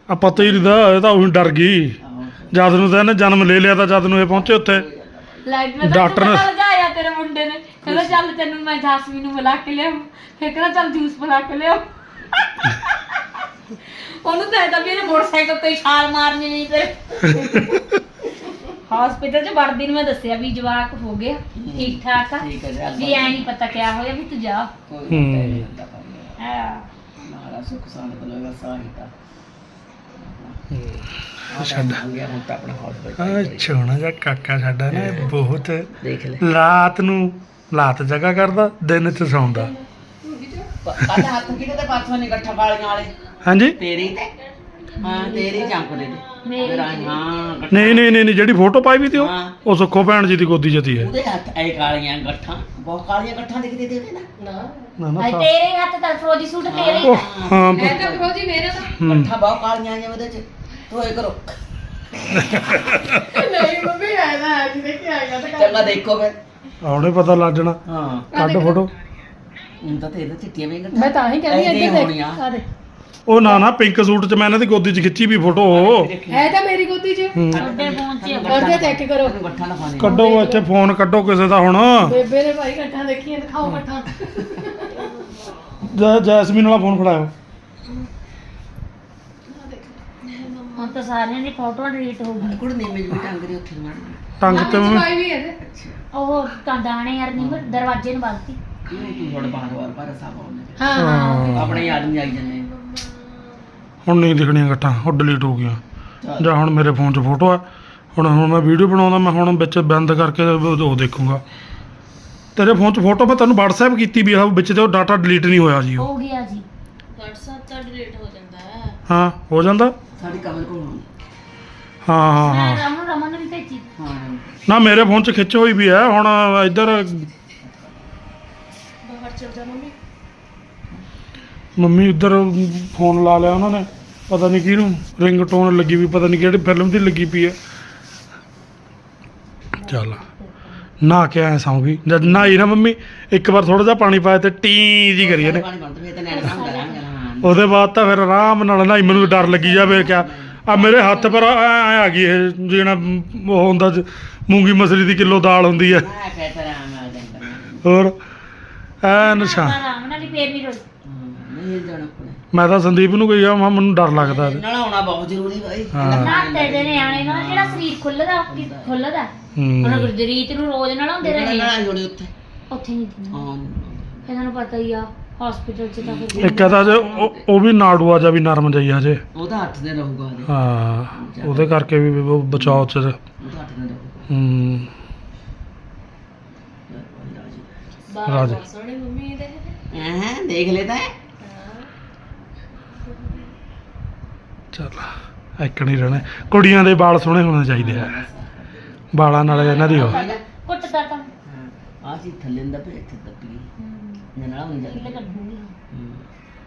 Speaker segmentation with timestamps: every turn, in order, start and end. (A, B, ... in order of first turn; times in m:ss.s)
0:00.1-0:02.0 A
0:00.3-0:00.7 B
0:02.0-0:03.1 B
0:02.5-0:04.9 A
0:04.3-0:05.5 B
0:05.5-0:13.0 C
0:05.8-0:06.5 A
0:07.8-0:08.2 B
0:13.9-0:17.8 C
0:17.3-0:17.8 A
0:18.9-0:24.7 C
0:21.6-0:23.5 B
0:24.9-0:26.4 B
0:25.1-0:25.7 A
0:26.4-0:26.9 C
0:27.2-0:29.1 B
0:30.2-0:30.6 B
0:30.7-0:32.0 A
0:31.5-0:33.7 B
0:33.2-0:35.9 A
0:34.9-0:35.4 B
0:36.0-0:36.4 B
0:36.4-0:39.7 A
0:40.2-0:40.7 D
0:40.8-0:43.2 B
0:41.0-0:41.3 A
0:43.4-0:43.8 A
0:43.8-0:44.3 B
0:45.0-0:48.1 B
0:45.0-0:45.8 D
0:46.4-0:47.4 C
0:47.7-0:51.1 A
0:49.1-0:49.6 B
0:51.0-0:54.3 B
0:54.4-0:55.0 D
0:55.0-0:55.5 A
0:55.2-0:57.2 C
0:56.7-0:58.3 B
0:57.0-0:58.1 A
0:57.8-0:59.0 D
0:58.9-1:01.6 B
0:59.0-0:59.3 A
1:02.3-1:03.3 A
1:02.5-1:02.9 B
1:03.1-1:06.0 D
1:05.6-1:06.4 B
1:06.8-1:07.8 A
1:07.9-1:08.3 B
1:08.3-1:08.8 D
1:08.4-1:08.9 A
1:09.8-1:12.4 B
1:10.9-1:12.7 D
1:13.3-1:16.1 A
1:15.7-1:16.6 B
1:16.3-1:17.4 D
1:17.4-1:17.7 A
1:17.5-1:20.2 B
1:17.6-1:18.8 C
1:18.5-1:19.4 D
1:20.0-1:20.7 D
1:20.0-1:22.2 A
1:22.0-1:25.0 D
1:23.6-1:24.3 B
1:25.9-1:27.3 A
1:29.5-1:30.9 D
1:30.8-1:32.6 C
1:32.4-1:34.8 B
1:34.4-1:35.2 A
1:34.5-1:35.6 D
1:34.5-1:34.9 C
1:35.6-1:36.0 B
1:36.1-1:38.6 C
1:37.4-1:37.8 B
1:38.9-1:42.7 B
1:40.8-1:42.0 D
1:40.9-1:41.9 A
1:42.0-1:42.5 E
1:44.0-1:45.8 A
1:46.2-1:46.5 B
1:46.4-1:47.6 A
1:48.2-1:51.4 A
1:52.6-1:56.1 A
1:56.0-1:56.6 C
1:57.2-1:58.9 E
1:59.1-2:00.0 A
2:00.2-2:01.1 B
2:02.0-2:02.8 A
2:02.4-2:03.9 C
2:04.0-2:04.5 B
2:04.7-2:07.3 A
2:07.6-2:08.1 B
2:09.1-2:09.9 E
2:09.3-2:09.7 D
2:11.8-2:17.6 A
2:19.8-2:20.4 D
2:19.8-2:20.2 A
2:21.0-2:25.7 A
2:22.2-2:22.5 B
2:25.2-2:27.6 B
2:26.3-2:27.0 C
2:27.4-2:36.1 A
2:29.2-2:30.7 B
2:30.8-2:31.4 C
2:35.7-2:37.8 B
2:37.8-2:38.2 A
2:39.0-2:39.8 A
2:39.1-2:40.8 C
2:41.0-2:42.4 B
2:42.5-2:44.6 A
2:44.2-2:49.0 B
2:45.9-2:46.4 A
2:46.1-2:51.8 C
2:49.6-2:50.1 A
2:51.2-2:52.3 B
2:52.7-2:53.5 C
2:53.3-2:54.3 B
2:54.3-2:56.8 C
2:56.0-2:57.5 B
2:56.4-2:59.2 A
2:59.4-3:00.5 B
3:00.5-3:03.2 A
3:01.1-3:01.9 B
3:02.6-3:02.9 B
3:03.4-3:04.3 B
3:04.3-3:04.9 A
3:06.9-3:07.8 B
3:08.1-3:09.8 D
3:08.2-3:08.6 A
3:08.3-3:08.6 E
3:09.9-3:11.1 B
3:11.4-3:11.8 D
3:14.7-3:18.2 A
3:16.1-3:17.0 B
3:17.8-3:20.4 B
3:19.1-3:20.2 A
3:19.5-3:21.3 C
3:21.5-3:23.7 B
3:23.8-3:24.3 C
3:24.4-3:25.3 B
3:24.8-3:25.7 C
3:25.9-3:26.2 B